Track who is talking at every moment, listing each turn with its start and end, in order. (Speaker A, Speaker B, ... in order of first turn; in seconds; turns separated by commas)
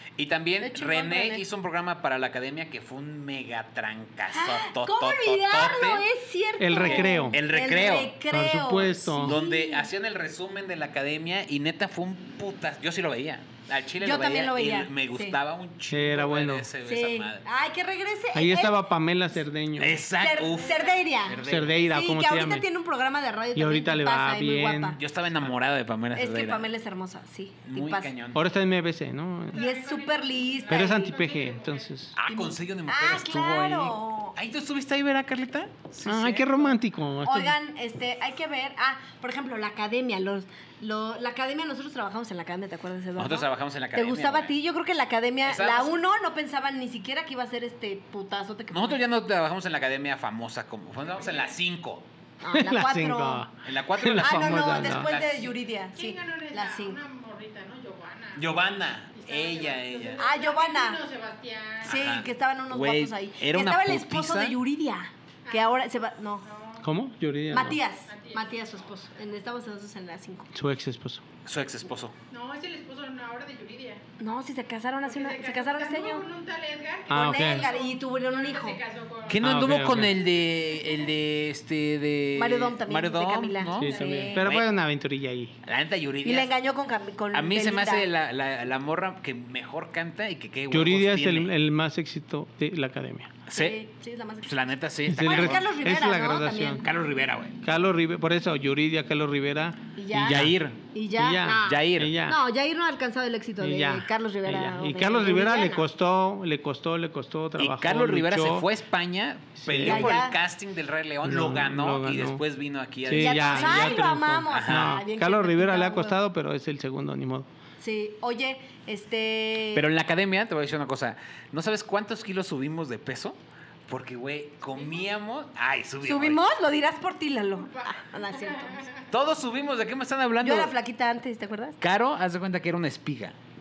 Speaker A: 0.1-6.0, Speaker B: 0.6-1.4, Speaker B: 4.3-9.9, Speaker C: 6.6-7.4, Speaker A: 6.8-8.1, Speaker C: 8.3-9.4, Speaker A: 9.2-17.4, Speaker B: 14.0-15.4, Speaker C: 15.9-16.7, Speaker B: 16.8-18.8, Speaker C: 18.3-20.0, Speaker A: 19.8-21.8, Speaker B: 20.1-25.0, Speaker D: 20.6-20.9, Speaker C: 21.4-22.6, Speaker C: 23.6-25.0, Speaker A: 25.0-26.6, Speaker B: 26.1-28.1, Speaker A: 27.7-28.5, Speaker C: 28.3-29.6, Speaker D: 29.5-31.9, Speaker B: 29.5-31.1, Speaker C: 30.7-32.1, Speaker A: 32.1-36.7, Speaker B: 32.3-34.3, Speaker C: 36.0-37.5, Speaker B: 37.2-49.0, Speaker A: 43.2-44.5, Speaker A: 45.4-46.0, Speaker A: 48.7-52.0, Speaker D: 51.2-51.5, Speaker B: 52.4-53.5, Speaker C: 52.5-55.1, Speaker A: 53.6-55.5, Speaker B: 54.2-57.0, Speaker D: 55.9-58.5, Speaker A: 58.4-60.2, Speaker D: 59.1-62.0, Speaker B: 60.2-61.0, Speaker A: 61.8-64.6, Speaker B: 61.8-66.5, Speaker D: 65.4-65.7, Speaker D: 66.4-66.9, Speaker C: 66.8-67.8, Speaker B: 67.5-70.5, Speaker D: 68.1-68.5, Speaker C: 70.5-71.2, Speaker A: 71.4-72.2, Speaker D: 72.3-74.0, Speaker B: 74.2-76.3, Speaker D: 75.0-81.0, Speaker C: 77.1-77.7, Speaker B: 77.1-78.8, Speaker A: 79.3-84.7, Speaker C: 79.4-80.1, Speaker B: 82.4-84.4, Speaker C: 83.8-85.5, Speaker D: 83.9-84.3, Speaker A: 85.6-86.5, Speaker B: 86.2-88.1, Speaker A: 87.3-91.5, Speaker C: 90.7-93.3, Speaker A: 93.5-93.8, Speaker B: 93.5-94.5, Speaker A: 94.4-95.6, Speaker C: 95.1-96.8, Speaker B: 95.2-96.9, Speaker A: 96.8-97.6, Speaker C: 97.6-100.5, Speaker B: 100.0-105.8, Speaker A: 100.1-100.8, Speaker C: 101.2-102.4, Speaker A: 101.6-102.2, Speaker C: 103.6-108.7, Speaker A: 107.6-114.9, Speaker C: 109.6-110.2, Speaker B: 109.8-110.4, Speaker C: 111.2-112.4, Speaker C: 113.0-117.5, Speaker B: 113.2-116.2, Speaker B: 117.8-119.8, Speaker A: 119.7-126.4, Speaker D: 124.8-125.0, Speaker B: 126.0-128.9, Speaker D: 127.8-128.8, Speaker A: 129.1-130.7, Speaker B: 130.4-131.8, Speaker A: 131.8-133.4